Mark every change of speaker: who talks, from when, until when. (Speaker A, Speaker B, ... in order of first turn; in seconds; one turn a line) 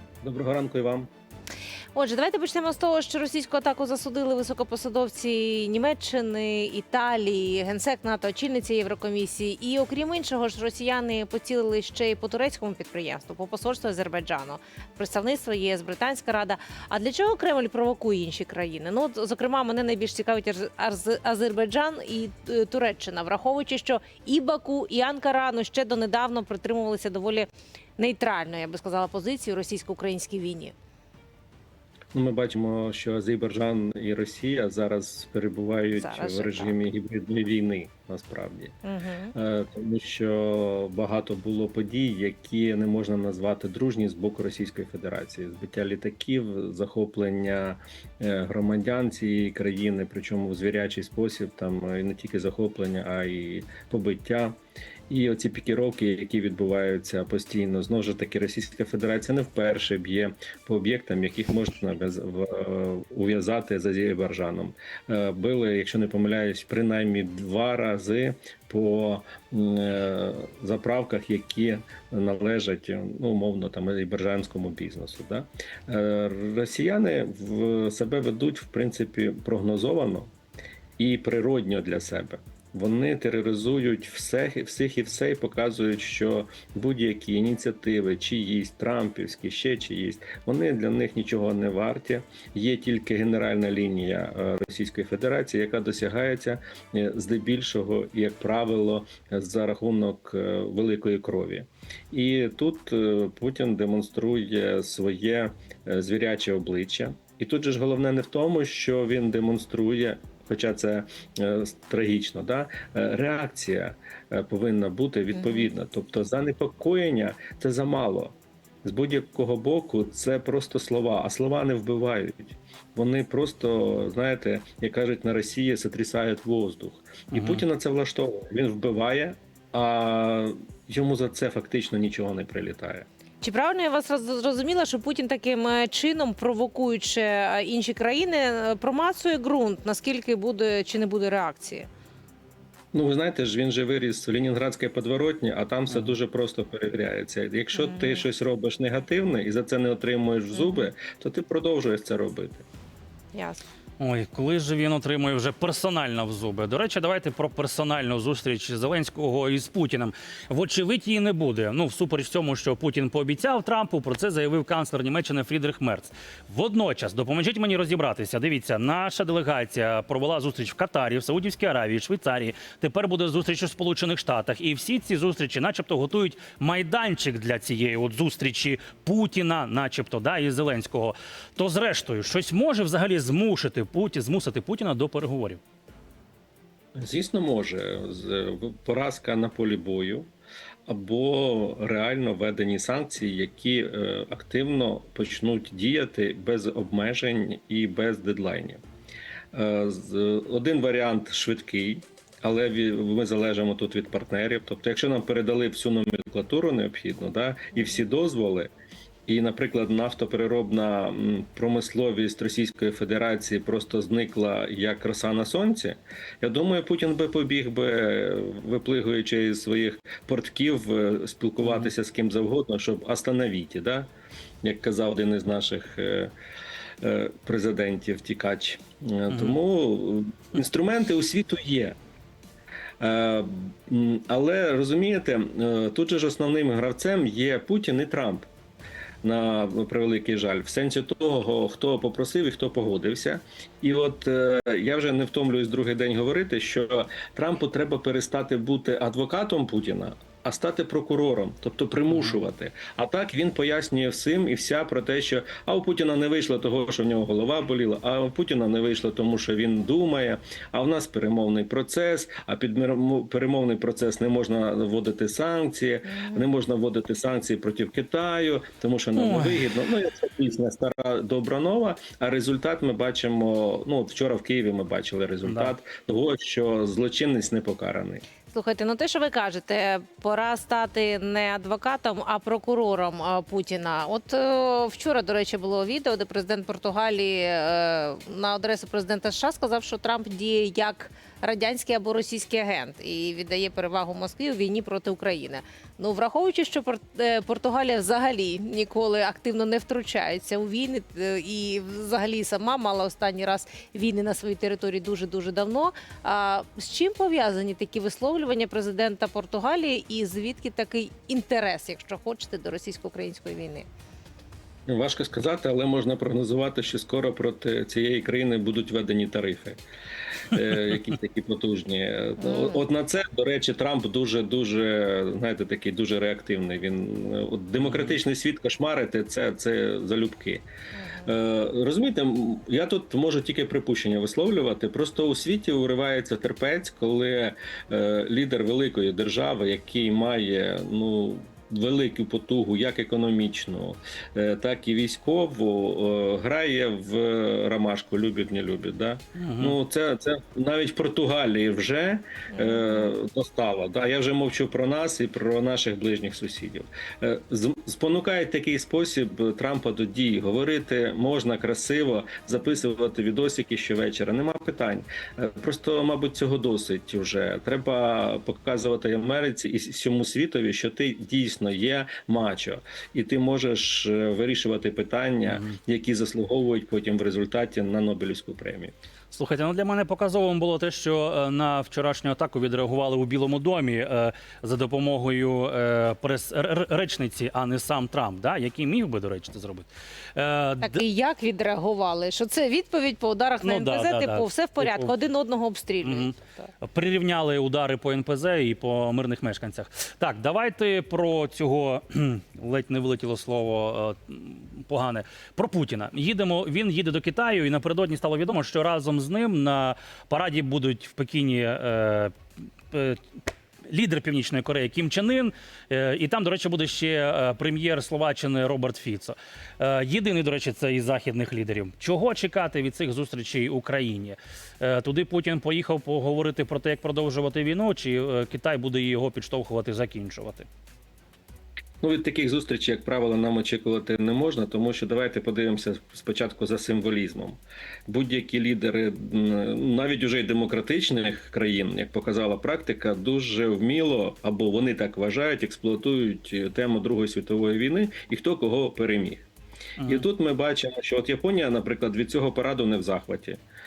Speaker A: 0.2-1.1
Speaker B: 1.9-30.7
Speaker A: 32.1-38.7
Speaker B: 36.0-36.7
Speaker B: 38.8-39.3
Speaker A: 39.3-54.6
Speaker A: 55.1-80.3
Speaker A: 81.0-133.1
Speaker B: 115.3-115.7
Speaker C: 127.3-127.6
Speaker B: 133.4-141.9
Speaker A: 142.9-152.6
Speaker B: 147.7-148.2
Speaker B: 150.6-150.8
Speaker B: 153.3-153.6
Speaker C: 154.0-185.6
Speaker A: 186.9-190.3
Speaker A: 190.9-198.8
Speaker A: 199.5-208.7
Speaker B: 207.7-208.0
Speaker A: 209.3-224.1
Speaker C: 221.6-221.9
Speaker A: 224.6-226.3
Speaker A: 227.0-231.9
Speaker C: 229.3-229.6
Speaker A: 233.0-238.5
Speaker A: 239.2-278.2
Speaker B: 266.1-266.5
Speaker C: 269.1-269.6
Speaker C: 275.4-275.7
Speaker B: 278.5-313.9
Speaker A: 314.9-319.8
Speaker A: 320.5-330.6
Speaker B: 322.4-322.8
Speaker C: 327.8-328.2
Speaker B: 330.9-331.3
Speaker A: 331.2-378.9
Speaker C: 349.3-349.8
Speaker B: 352.5-353.1
Speaker C: 375.5-375.8
Speaker C: 379.3-391.0
Speaker B: 390.8-396.7
Speaker C: 393.6-395.1
Speaker C: 396.0-412.4
Speaker C: 412.9-413.2
Speaker C: 413.9-430.7
Speaker A: 432.0-449.4
Speaker C: 450.0-450.2
Speaker A: 450.0-453.6